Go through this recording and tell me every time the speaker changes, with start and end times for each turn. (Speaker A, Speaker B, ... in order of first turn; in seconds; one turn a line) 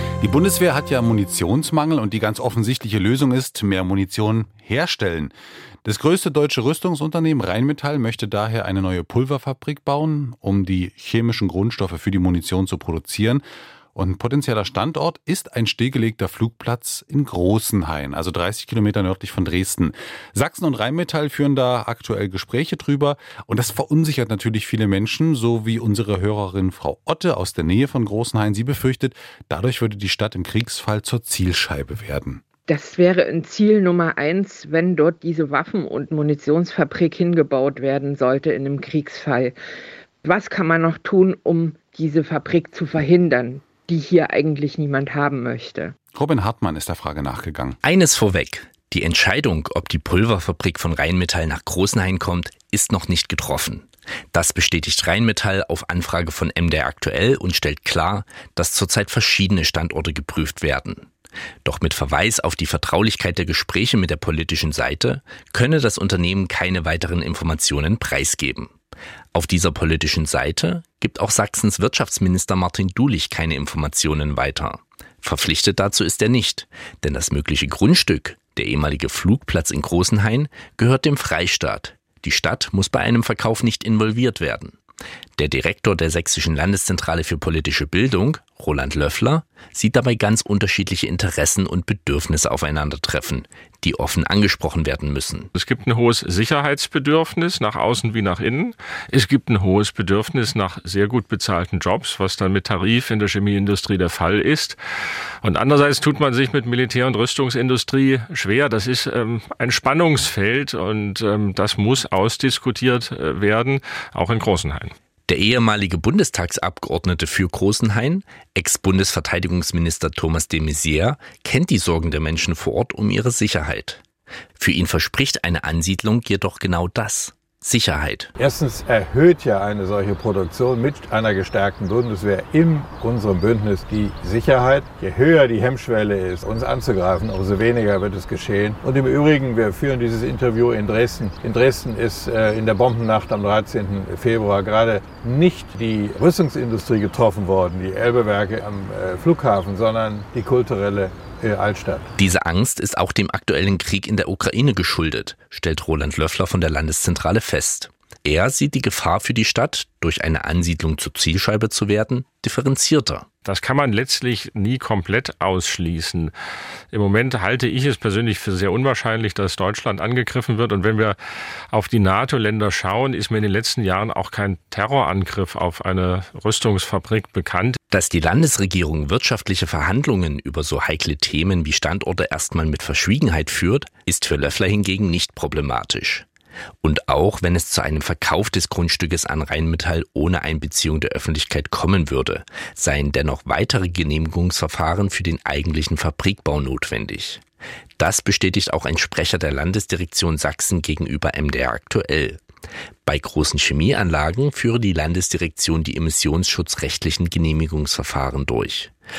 Speaker A: 0.2-5.3
Speaker A: 5.8-13.4
Speaker A: 13.9-32.4
Speaker B: 32.7-39.6
Speaker B: 40.2-46.0
Speaker A: 46.1-47.8
Speaker C: 47.8-61.1
Speaker C: 61.6-68.7
Speaker C: 69.3-84.8
Speaker C: 85.4-95.5
Speaker D: 95.5-104.8
Speaker D: 105.4-114.9
Speaker C: 115.3-124.0
Speaker C: 124.6-128.3
Speaker E: 128.3-152.1
Speaker C: 152.2-163.2
Speaker D: 163.4-166.3
Speaker D: 166.9-171.2
Speaker D: 171.7-177.8
Speaker C: 177.9-186.2
Speaker C: 186.8-197.4
Speaker C: 198.0-202.4
Speaker C: 203.1-208.9